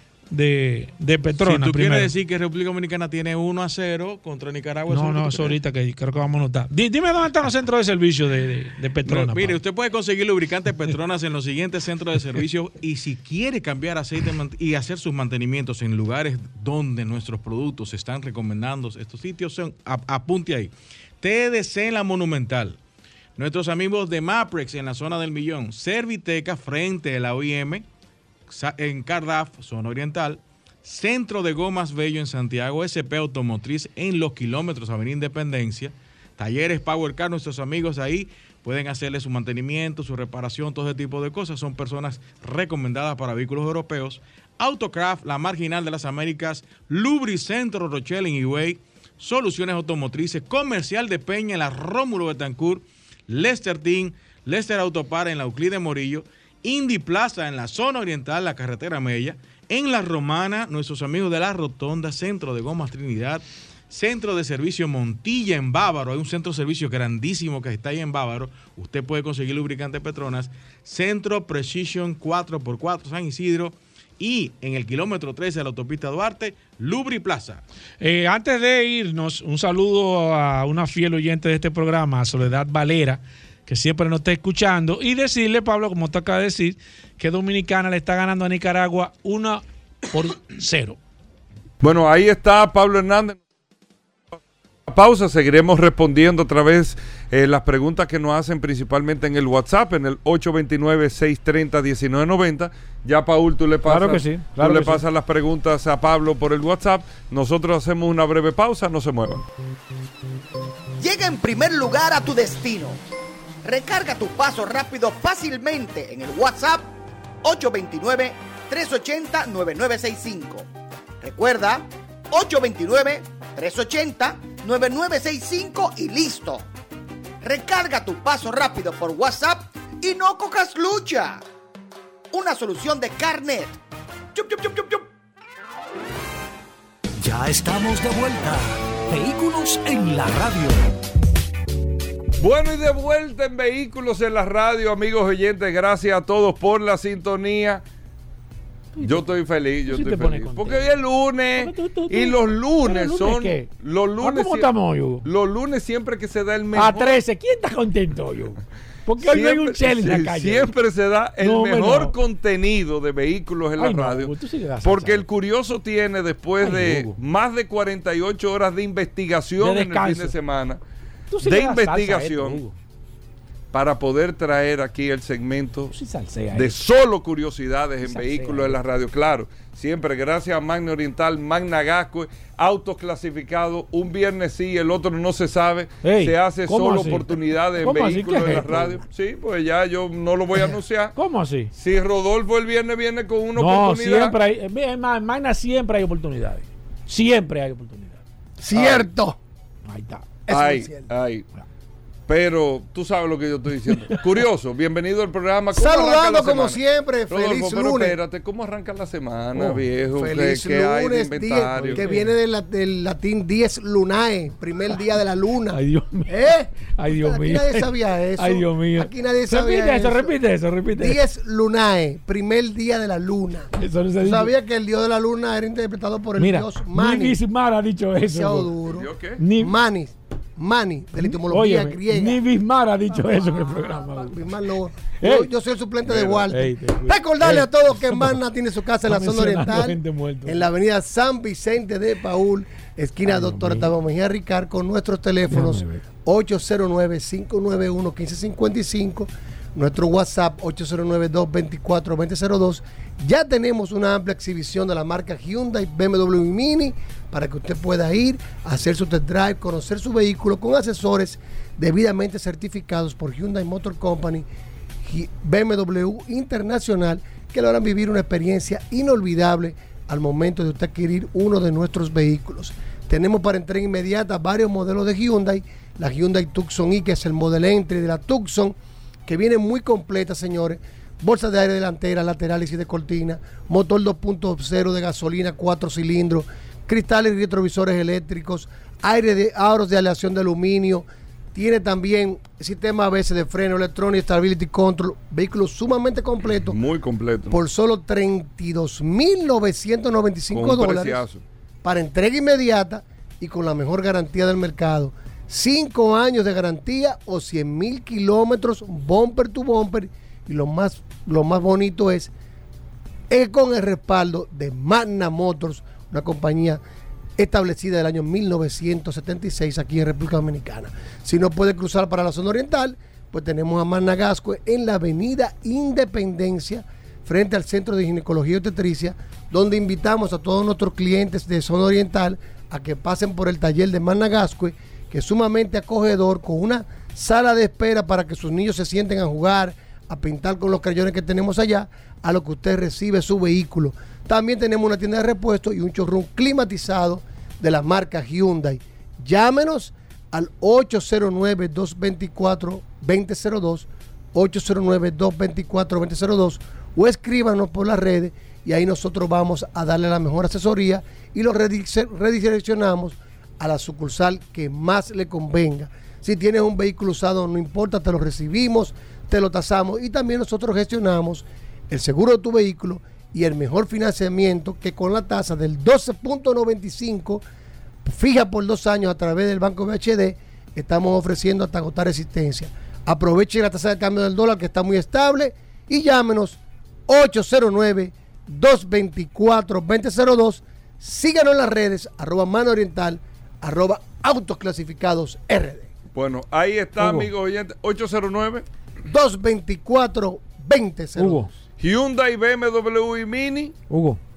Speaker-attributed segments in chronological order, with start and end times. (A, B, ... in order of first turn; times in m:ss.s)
0:00.3-0:02.1 A
0:01.3-0:05.6 B
0:04.9-0:09.6 A
0:09.0-0:22.8 B
0:23.4-0:27.8 B
0:28.5-1:17.6 B
1:18.0-1:31.0 A
1:31.8-1:33.4 C
1:34.9-1:49.4 C
1:43.8-1:45.0 A
1:51.0-1:53.0 D
1:53.6-1:56.9 D
1:57.4-2:00.7 D
2:01.2-2:06.6 D
2:07.4-2:11.4 D
2:12.3-2:13.8 D
2:14.3-2:15.1 D
2:17.2-2:20.8 E
2:22.4-2:27.8 C
2:29.0-2:29.3 A
2:29.0-2:34.7 C
2:29.8-2:30.9 A
2:31.6-2:35.3 A
2:35.2-2:37.2 C
2:36.7-2:40.7 A
2:39.2-2:50.8 C
2:41.4-2:42.2 A
2:43.8-2:45.2 A
2:46.6-2:47.2 A
2:49.6-2:50.3 A
2:51.3-2:52.8 A
2:51.4-2:52.6 C
2:53.7-2:55.9 C
2:55.9-2:56.8 A
2:56.5-3:11.1 C
2:58.0-2:58.7 A
3:06.0-3:09.0 A
3:11.1-3:11.7 A
3:11.7-3:14.4 C
3:13.6-3:18.2 A
3:18.6-3:19.4 F
3:18.7-3:19.1 C
3:19.8-3:20.3 A
3:20.5-3:21.1 F
3:20.5-3:21.5 C
3:22.3-3:32.0 C
3:25.7-3:28.2 F
3:29.6-3:29.8 A
3:30.1-3:40.4 F
3:31.8-3:32.4 A
3:35.7-3:41.2 A
3:41.0-3:43.7 F
3:43.7-3:44.5 A
3:44.2-3:47.4 F
3:46.4-3:48.7 A
3:48.2-3:52.4 F
3:48.9-3:49.4 C
3:49.4-3:49.8 A
3:51.2-3:54.4 A
3:53.7-4:24.4 F
3:55.2-3:55.5 A
3:56.0-3:56.4 C
3:56.5-3:58.4 A
3:59.0-4:00.7 A
4:03.2-4:03.9 A
4:05.5-4:06.0 A
4:25.0-4:38.8 F
4:39.3-4:56.8 F
4:56.4-4:57.6 C
4:57.5-5:01.2 F
5:00.5-5:01.4 C
5:01.8-5:12.3 F
5:13.3-5:16.8 F
5:17.4-6:17.4 F
6:18.0-6:35.9 F
6:36.1-6:38.6 C
6:37.0-6:37.3 A
6:39.1-6:41.5 F
6:41.2-6:41.5 A
6:41.8-6:43.7 C
6:43.9-6:44.2 A